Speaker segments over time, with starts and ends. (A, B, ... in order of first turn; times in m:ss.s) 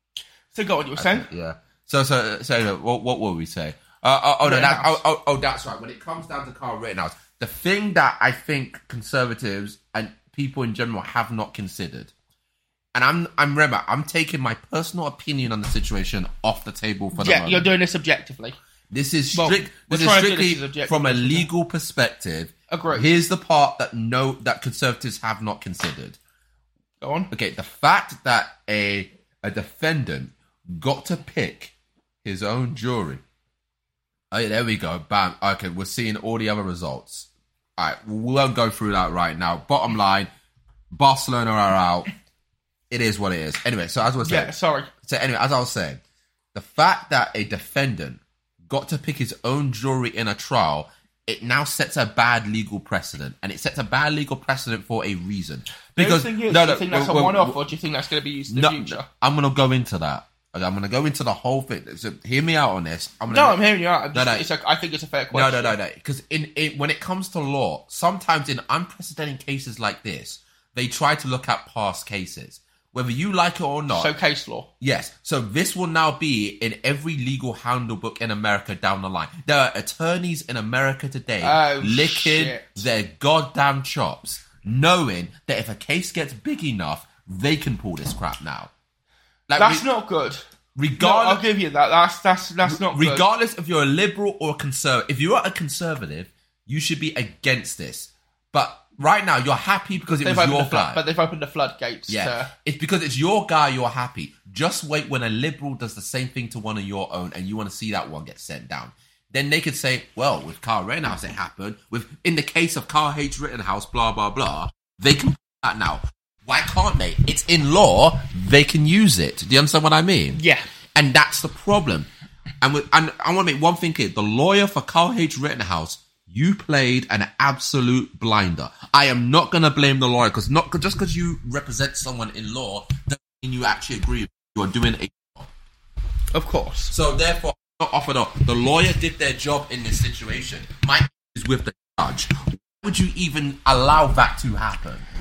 0:00.5-0:01.3 A
0:01.0-0:12.1 B
0:04.4-0:05.0 A
0:12.9-0:17.7 B
0:17.1-0:18.6 A
0:18.9-0:26.2 B
0:19.3-0:21.5 A
0:22.7-0:23.2 A
0:27.0-0:27.3 A
0:27.3-0:33.2 B
0:34.3-0:40.3 B
0:40.9-0:42.1 B
0:42.9-0:46.0 B
0:44.2-0:44.9 A
0:46.5-0:57.6 B
0:56.0-0:59.1 A
0:58.5-1:03.6 B
1:03.3-1:05.8 A
1:04.1-1:04.5 B
1:05.3-1:14.1 B
1:13.9-1:14.7 A
1:14.8-1:28.7 B
1:21.4-1:22.8 A
1:29.5-1:29.9 B
1:29.6-1:30.4 A
1:30.8-1:31.4 B
1:31.0-1:33.2 A
1:32.6-1:41.0 B
1:40.2-1:42.5 A
1:42.1-2:00.4 B
2:00.4-2:00.7 A
2:01.0-2:02.1 B
2:02.6-2:15.5 B
2:16.3-2:16.9 A
2:16.9-2:25.1 B